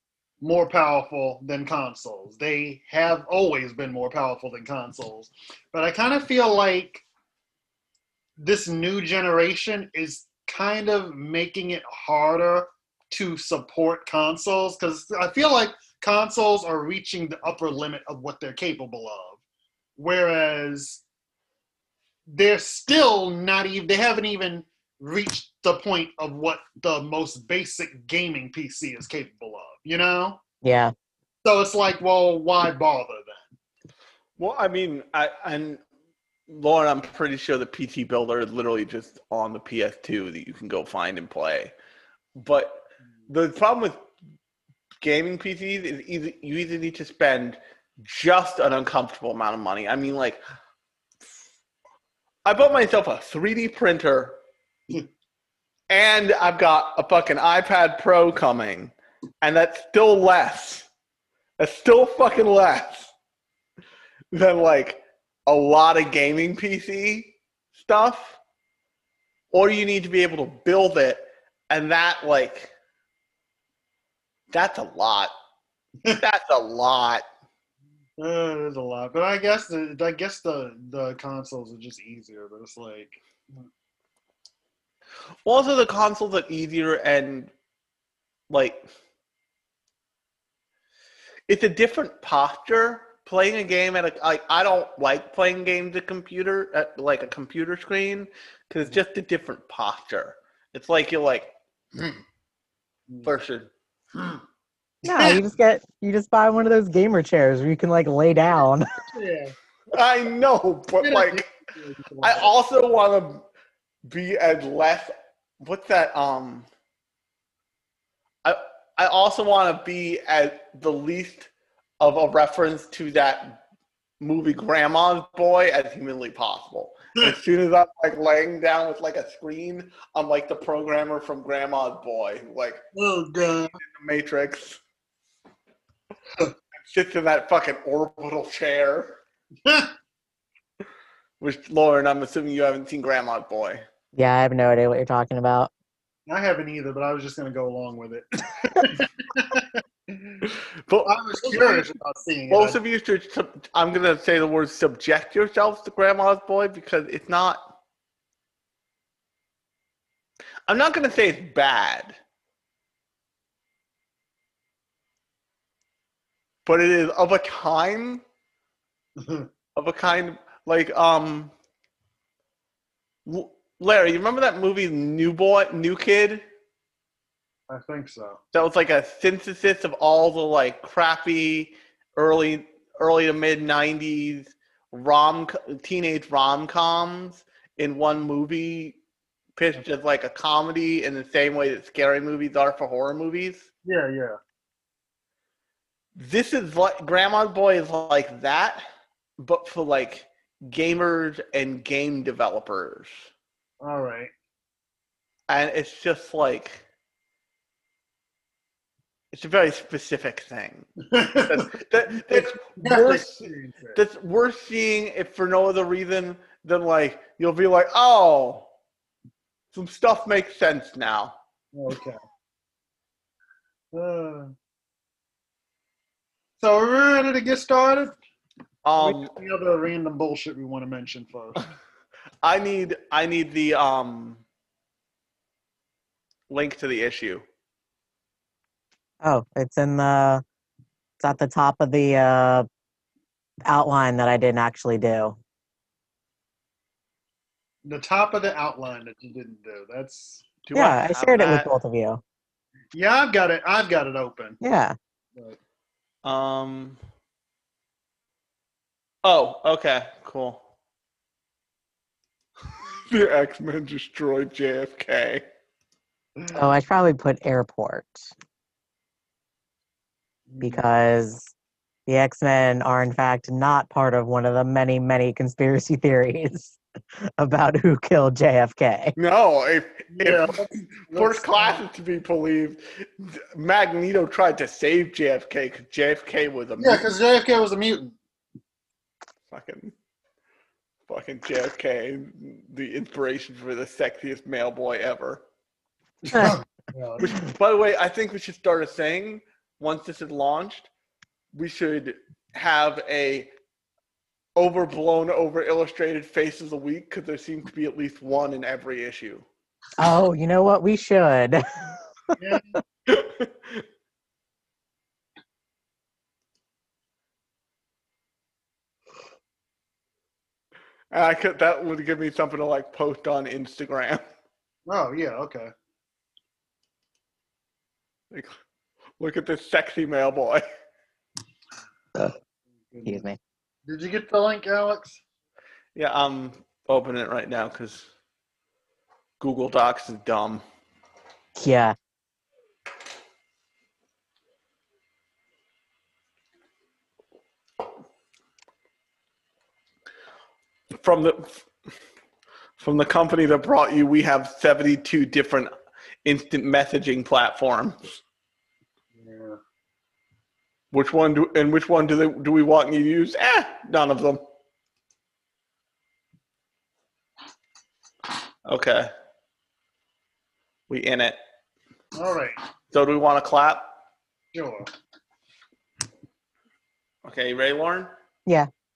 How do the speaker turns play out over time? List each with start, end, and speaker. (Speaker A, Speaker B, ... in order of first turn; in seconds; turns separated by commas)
Speaker A: 0.4-7.0, Speaker A: 8.4-19.4, Speaker A: 20.0-21.0, Speaker A: 22.3-30.4, Speaker B: 30.6-30.9, Speaker A: 31.4-33.5, Speaker C: 34.4-35.8, Speaker C: 36.5-41.7, Speaker C: 42.3-44.0, Speaker C: 45.0-50.4, Speaker C: 52.4-54.4, Speaker C: 55.9-60.9, Speaker C: 61.6-63.1, Speaker C: 64.3-68.4, Speaker C: 69.5-72.7, Speaker C: 74.5-75.3, Speaker C: 76.1-77.2, Speaker A: 78.2-83.6, Speaker C: 85.4-87.5, Speaker C: 88.5-88.8, Speaker C: 91.5-102.2, Speaker C: 103.2-104.4, Speaker B: 105.0-108.9, Speaker A: 105.1-105.4, Speaker A: 109.1-109.5, Speaker C: 109.9-111.5, Speaker A: 111.0-112.5, Speaker C: 112.2-113.4, Speaker C: 114.0-116.7, Speaker C: 118.4-123.6, Speaker C: 124.2-132.8, Speaker A: 132.9-133.8, Speaker C: 133.8-134.8, Speaker C: 136.8-139.2, Speaker A: 139.6-139.9, Speaker C: 141.4-143.8, Speaker B: 144.1-145.7, Speaker A: 146.3-150.4, Speaker C: 150.4-151.8, Speaker A: 151.1-152.8, Speaker C: 152.5-157.6, Speaker C: 160.7-162.2, Speaker C: 166.7-168.2, Speaker A: 169.2-169.5, Speaker C: 169.7-171.5, Speaker C: 173.2-176.4, Speaker A: 177.7-178.4, Speaker C: 178.5-189.0, Speaker C: 189.6-193.7, Speaker A: 193.8-194.4, Speaker C: 196.1-198.8, Speaker C: 199.4-203.3, Speaker A: 203.8-204.3, Speaker C: 205.5-206.8, Speaker C: 209.3-210.9, Speaker A: 211.0-214.0, Speaker C: 211.4-218.7, Speaker C: 219.7-221.4, Speaker A: 221.7-222.2, Speaker A: 223.9-224.5, Speaker A: 226.6-228.2, Speaker C: 228.8-229.3, Speaker A: 229.0-231.7, Speaker C: 232.4-234.4, Speaker C: 236.5-237.4, Speaker B: 239.2-240.4, Speaker B: 241.2-242.7, Speaker B: 243.7-245.4, Speaker A: 247.8-250.5, Speaker C: 250.6-251.7, Speaker B: 250.7-252.2, Speaker A: 252.9-254.6, Speaker B: 254.6-254.9, Speaker C: 256.2-257.0, Speaker C: 259.2-260.6, Speaker C: 263.1-265.4, Speaker B: 266.5-268.3, Speaker A: 270.5-270.8, Speaker B: 270.6-271.5, Speaker B: 272.1-276.8, Speaker B: 277.4-279.2, Speaker C: 279.2-280.6, Speaker A: 280.1-281.8, Speaker C: 281.1-287.0, Speaker A: 286.8-288.2, Speaker C: 289.5-289.9, Speaker C: 291.1-295.4, Speaker A: 296.2-297.3, Speaker C: 297.2-300.9, Speaker C: 301.5-303.5, Speaker C: 304.6-309.4, Speaker B: 310.0-311.9, Speaker A: 312.4-312.8, Speaker C: 313.1-313.8, Speaker C: 321.1-324.2, Speaker A: 324.9-325.7, Speaker C: 329.2-330.6, Speaker A: 332.9-333.2, Speaker B: 333.0-333.4, Speaker A: 333.9-335.2, Speaker C: 335.9-338.1, Speaker C: 339.4-340.6, Speaker B: 341.6-341.9, Speaker C: 350.9-351.7, Speaker C: 352.8-355.7, Speaker C: 356.2-358.2, Speaker A: 359.1-359.6, Speaker C: 360.9-364.4, Speaker C: 368.6-369.1, Speaker C: 370.9-371.4, Speaker A: 372.2-372.6, Speaker C: 372.9-373.9, Speaker A: 374.5-374.9, Speaker C: 377.2-378.1